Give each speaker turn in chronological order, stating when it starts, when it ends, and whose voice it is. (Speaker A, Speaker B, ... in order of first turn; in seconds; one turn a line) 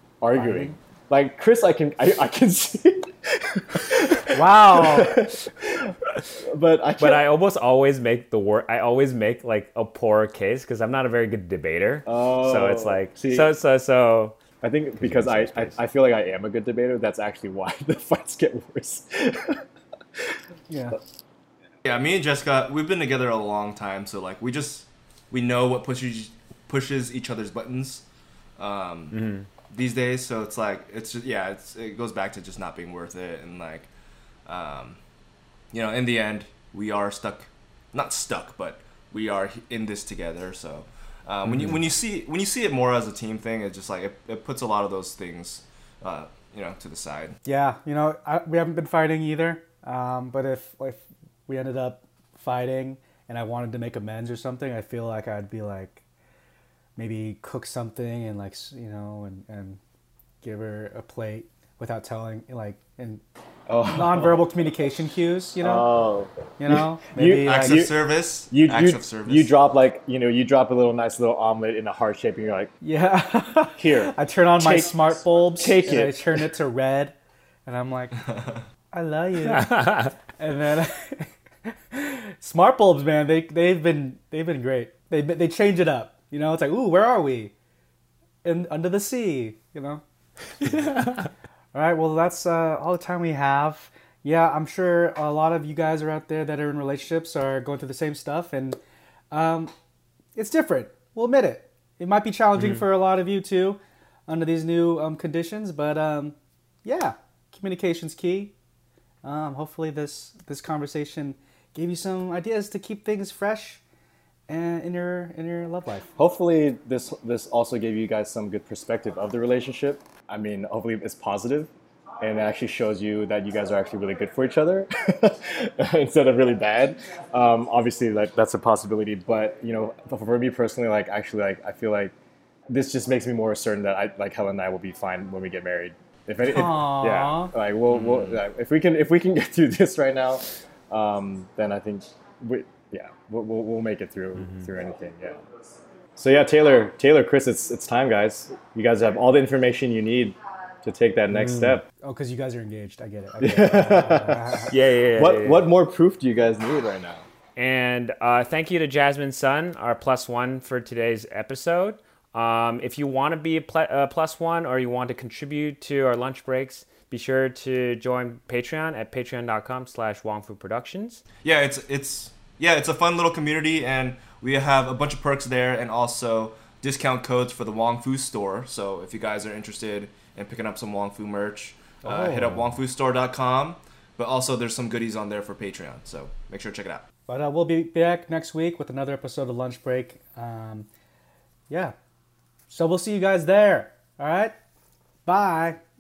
Speaker A: 0.2-7.3
Speaker B: 0.3-0.8
Speaker B: 4.3-5.2
Speaker C: 7.0-14.4
Speaker A: 12.1-13.5
Speaker A: 14.6-19.6
Speaker C: 15.0-15.8
Speaker B: 20.7-21.0
Speaker D: 21.8-28.0
Speaker D: 28.6-33.9
Speaker C: 29.1-29.5
Speaker D: 34.5-35.0
Speaker D: 35.7-47.4
Speaker C: 41.5-41.8
Speaker B: 47.5-56.0
Speaker B: 57.0-59.8
Speaker B: 60.4-63.2
Speaker A: 63.7-64.3
Speaker B: 63.9-65.9
Speaker A: 65.6-67.9
Speaker B: 66.6-67.8
Speaker D: 67.4-69.5
Speaker A: 68.5-72.7
Speaker B: 72.8-77.2
Speaker A: 73.8-76.5
Speaker B: 77.7-78.2
Speaker B: 78.9-87.5
Speaker C: 79.4-80.1
Speaker B: 88.4-90.0
Speaker B: 91.7-98.8
Speaker B: 99.3-99.7
Speaker B: 100.4-108.5
Speaker B: 109.2-113.8
Speaker B: 114.5-116.1
Speaker A: 116.2-132.1
Speaker A: 132.7-145.4
Speaker B: 136.4-137.5
Speaker D: 137.9-138.4
Speaker A: 146.2-151.8
Speaker C: 151.4-151.8
Speaker B: 152.0-154.7
Speaker A: 153.4-157.2
Speaker C: 154.7-155.7
Speaker C: 157.6-171.2
Speaker D: 171.4-187.1
Speaker B: 182.0-182.6
Speaker B: 187.3-190.9
Speaker B: 191.7-191.9
Speaker B: 192.7-194.6
Speaker B: 195.3-195.8